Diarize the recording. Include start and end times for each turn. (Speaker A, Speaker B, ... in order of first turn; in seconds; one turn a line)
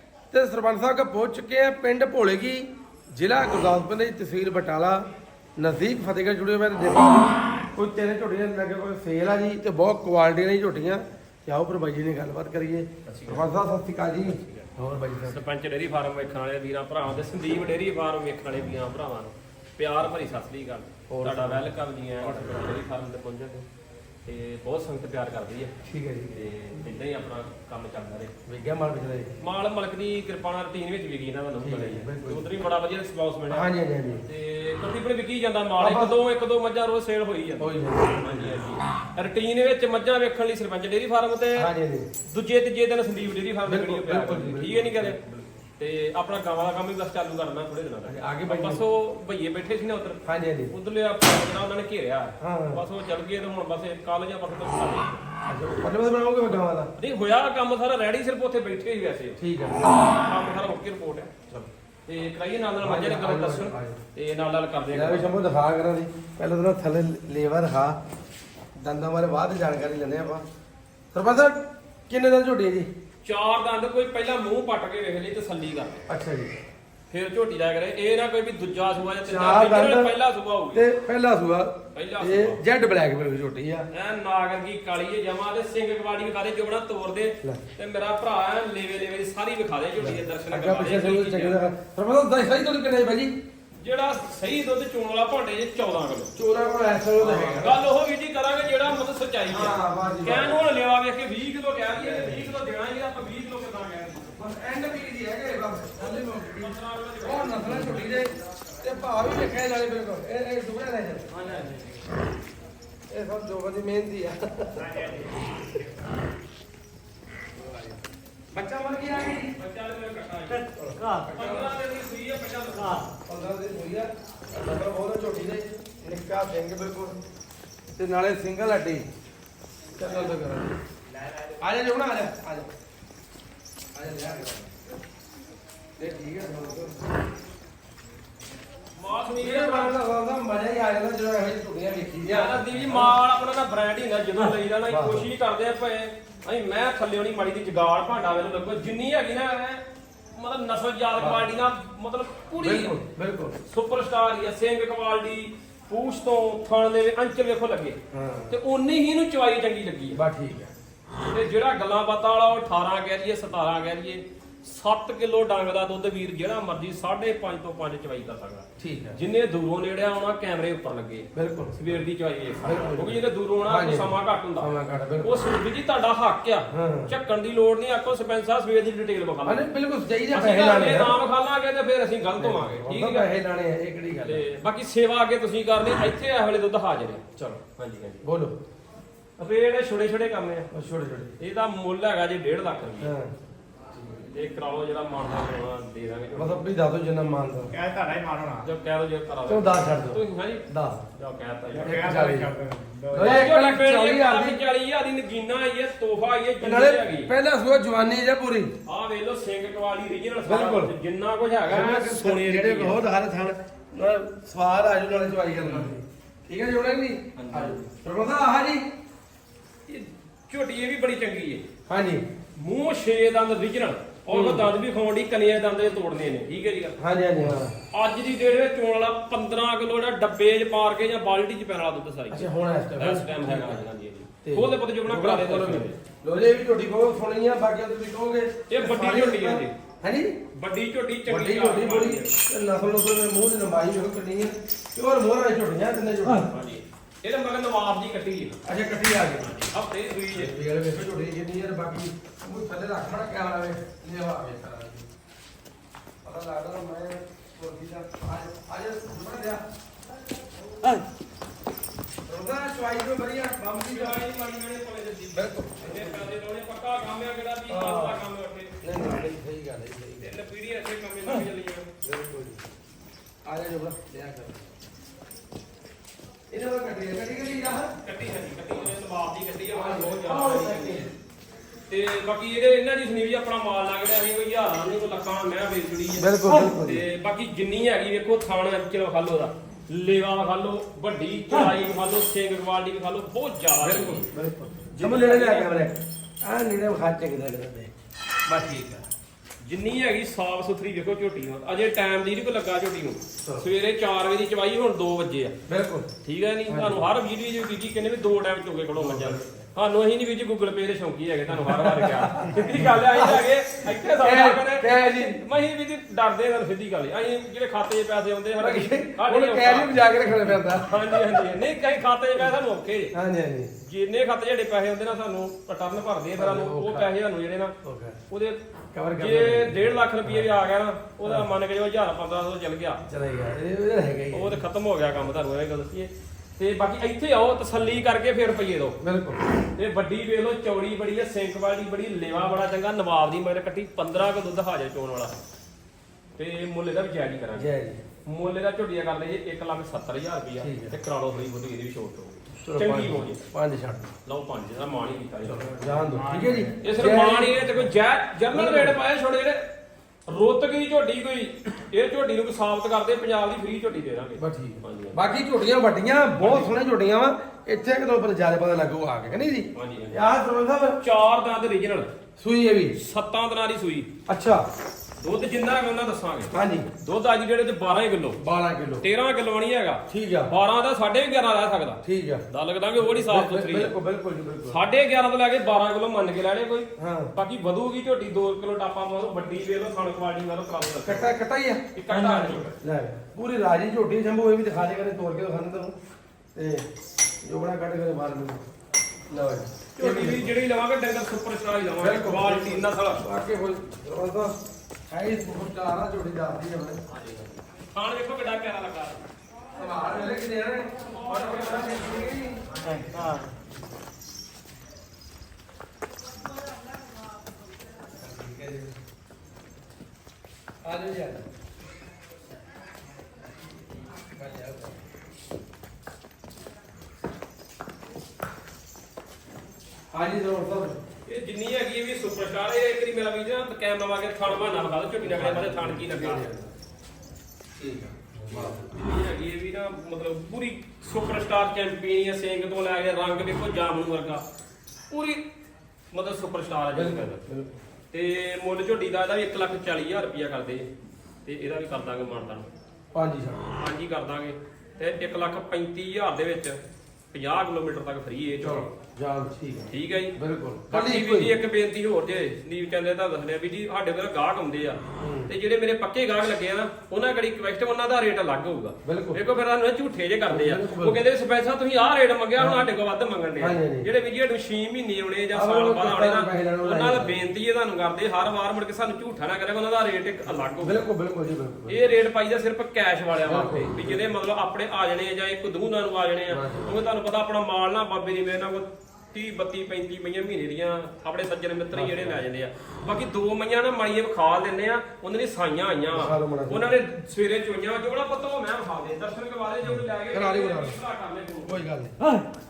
Speaker A: 0.3-5.0
Speaker A: 5.6-15.4
Speaker B: 13.1-13.4
Speaker B: 14.2-14.7
Speaker B: 15.2-23.7
Speaker A: 21.1-22.6
Speaker B: 24.3-25.7
Speaker A: 25.9-26.4
Speaker B: 26.3-28.3
Speaker A: 28.5-29.3
Speaker B: 29.4-33.7
Speaker A: 31.6-32.5
Speaker A: 33.5-34.2
Speaker B: 34.3-41.7
Speaker A: 35.8-36.2
Speaker A: 37.6-38.6
Speaker A: 41.5-42.1
Speaker B: 42.2-55.2
Speaker A: 43.7-45.2
Speaker A: 48.0-48.8
Speaker A: 50.3-50.7
Speaker A: 52.4-52.8
Speaker A: 55.5-56.9
Speaker B: 57.0-59.4
Speaker A: 59.4-60.0
Speaker B: 60.1-61.3
Speaker B: 62.1-65.4
Speaker A: 62.8-64.0
Speaker A: 64.9-68.0
Speaker A: 68.8-70.5
Speaker A: 71.1-72.9
Speaker B: 73.2-76.0
Speaker A: 76.1-76.5
Speaker B: 77.1-80.9
Speaker A: 79.2-80.2
Speaker A: 80.7-83.9
Speaker B: 81.9-82.6
Speaker B: 83.9-91.6
Speaker A: 90.0-93.3
Speaker B: 93.8-96.3
Speaker A: 96.4-97.8
Speaker B: 97.2-104.4
Speaker A: 99.5-100.6
Speaker A: 101.9-102.5
Speaker A: 104.4-111.6
Speaker B: 106.5-108.2
Speaker C: 111.4-112.0
Speaker A: 113.1-115.6
Speaker C: 114.9-115.9
Speaker A: 117.6-118.0
Speaker A: 118.5-119.5
Speaker B: 119.5-120.7
Speaker A: 120.8-121.8
Speaker B: 121.2-123.1
Speaker A: 123.3-127.2
Speaker A: 128.0-129.1
Speaker A: 129.9-130.8
Speaker A: 131.6-132.7
Speaker A: 133.9-134.7
Speaker A: 136.0-137.0
Speaker B: 139.0-140.0
Speaker A: 139.3-143.1
Speaker B: 142.3-149.8
Speaker A: 144.9-145.3
Speaker B: 150.4-153.0
Speaker A: 151.2-151.5
Speaker A: 152.6-153.6
Speaker B: 153.6-158.0
Speaker A: 158.1-158.6
Speaker B: 158.5-160.2
Speaker A: 160.1-160.7
Speaker B: 161.3-179.7
Speaker A: 168.8-169.2
Speaker A: 171.3-172.0
Speaker A: 172.6-175.4
Speaker A: 176.7-177.1
Speaker A: 179.4-181.2
Speaker B: 180.3-183.3
Speaker A: 182.4-184.4
Speaker B: 184.2-188.2
Speaker A: 187.4-187.6
Speaker A: 188.2-188.6
Speaker B: 189.4-190.7
Speaker A: 190.7-191.4
Speaker B: 191.4-193.1
Speaker A: 193.0-193.3
Speaker B: 194.3-196.6
Speaker A: 196.3-197.8
Speaker C: 197.7-198.7
Speaker B: 198.6-202.0
Speaker A: 199.5-201.1
Speaker C: 201.7-203.5
Speaker A: 201.8-202.5
Speaker A: 203.1-204.6
Speaker B: 203.2-207.3
Speaker A: 206.6-208.7
Speaker B: 208.9-213.0
Speaker A: 210.4-210.9
Speaker A: 211.7-218.8
Speaker B: 215.6-215.9
Speaker B: 217.4-217.9
Speaker B: 219.9-221.6
Speaker A: 221.9-222.2
Speaker B: 222.6-227.0
Speaker A: 224.3-224.7
Speaker A: 227.0-227.7
Speaker B: 227.9-236.0
Speaker A: 232.3-233.8
Speaker A: 234.4-240.3
Speaker B: 238.7-239.7
Speaker B: 240.5-242.4
Speaker A: 241.3-246.5
Speaker B: 246.3-248.6
Speaker A: 248.7-249.5
Speaker B: 249.3-250.6
Speaker A: 250.3-255.1
Speaker A: 256.2-259.6
Speaker A: 262.3-264.2
Speaker B: 263.8-268.8
Speaker A: 265.3-266.3
Speaker A: 267.7-268.2
Speaker A: 268.8-270.3
Speaker B: 270.2-271.9
Speaker A: 272.0-272.6
Speaker A: 273.4-274.7
Speaker A: 276.5-277.9
Speaker B: 278.0-281.1
Speaker A: 279.7-281.1
Speaker B: 281.9-294.3
Speaker A: 286.2-287.1
Speaker A: 293.8-297.9
Speaker B: 294.9-295.8
Speaker B: 298.5-299.1
Speaker B: 299.6-305.6
Speaker A: 305.7-306.1
Speaker B: 306.2-320.1
Speaker A: 306.7-307.1
Speaker A: 309.0-309.6
Speaker A: 311.5-315.4
Speaker A: 318.6-321.6
Speaker B: 320.7-323.1
Speaker A: 323.1-323.7
Speaker B: 323.8-327.8
Speaker A: 326.4-327.1
Speaker A: 327.8-328.2
Speaker B: 328.3-328.6
Speaker A: 328.9-330.5
Speaker B: 329.2-333.0
Speaker A: 331.2-331.5
Speaker A: 333.1-334.6
Speaker B: 334.3-339.0
Speaker A: 339.0-339.4
Speaker B: 339.8-345.3
Speaker B: 346.4-347.7
Speaker A: 347.5-348.0
Speaker B: 348.2-353.4
Speaker A: 350.6-350.9
Speaker A: 352.6-354.1
Speaker B: 354.2-355.8
Speaker A: 355.4-357.9
Speaker C: 355.8-356.8
Speaker B: 356.8-359.7
Speaker A: 358.5-359.0
Speaker B: 360.3-365.2
Speaker A: 364.4-371.0
Speaker B: 366.4-366.8
Speaker B: 369.7-370.3
Speaker B: 371.0-372.1
Speaker A: 372.4-373.0
Speaker B: 372.9-374.1
Speaker A: 374.3-374.7
Speaker B: 375.2-378.4
Speaker A: 376.5-376.9
Speaker A: 378.4-379.1
Speaker B: 379.0-383.9
Speaker A: 380.1-380.5
Speaker A: 382.0-382.4
Speaker A: 383.0-384.8
Speaker B: 384.7-391.3
Speaker A: 387.0-387.3
Speaker A: 391.0-395.9
Speaker B: 391.9-392.8
Speaker A: 396.6-396.9
Speaker A: 397.4-398.6
Speaker A: 399.3-400.6
Speaker B: 400.0-403.2
Speaker A: 402.0-407.0
Speaker B: 407.1-409.2
Speaker A: 409.8-413.4
Speaker B: 411.0-413.4
Speaker C: 412.9-413.4
Speaker A: 418.2-419.0
Speaker A: 420.8-421.4
Speaker A: 424.4-425.0
Speaker A: 430.1-431.0
Speaker B: 431.2-436.5
Speaker A: 435.2-436.7
Speaker A: 437.8-438.9
Speaker B: 438.5-444.4
Speaker B: 445.1-445.5
Speaker B: 446.1-447.4
Speaker A: 446.9-447.7
Speaker B: 448.1-450.9
Speaker B: 451.4-452.7
Speaker A: 453.1-453.7
Speaker B: 453.8-456.8
Speaker B: 457.3-458.9
Speaker A: 458.6-461.6
Speaker B: 459.9-460.4
Speaker B: 460.9-481.0
Speaker A: 465.2-465.5
Speaker A: 469.1-469.4
Speaker A: 470.5-471.2
Speaker A: 472.6-472.8
Speaker A: 473.6-474.1
Speaker A: 475.5-477.4
Speaker A: 480.8-482.0
Speaker B: 481.9-501.9
Speaker A: 483.4-484.3
Speaker A: 486.5-487.0
Speaker A: 491.9-492.4
Speaker A: 496.1-496.9
Speaker A: 499.9-501.0
Speaker A: 501.6-502.2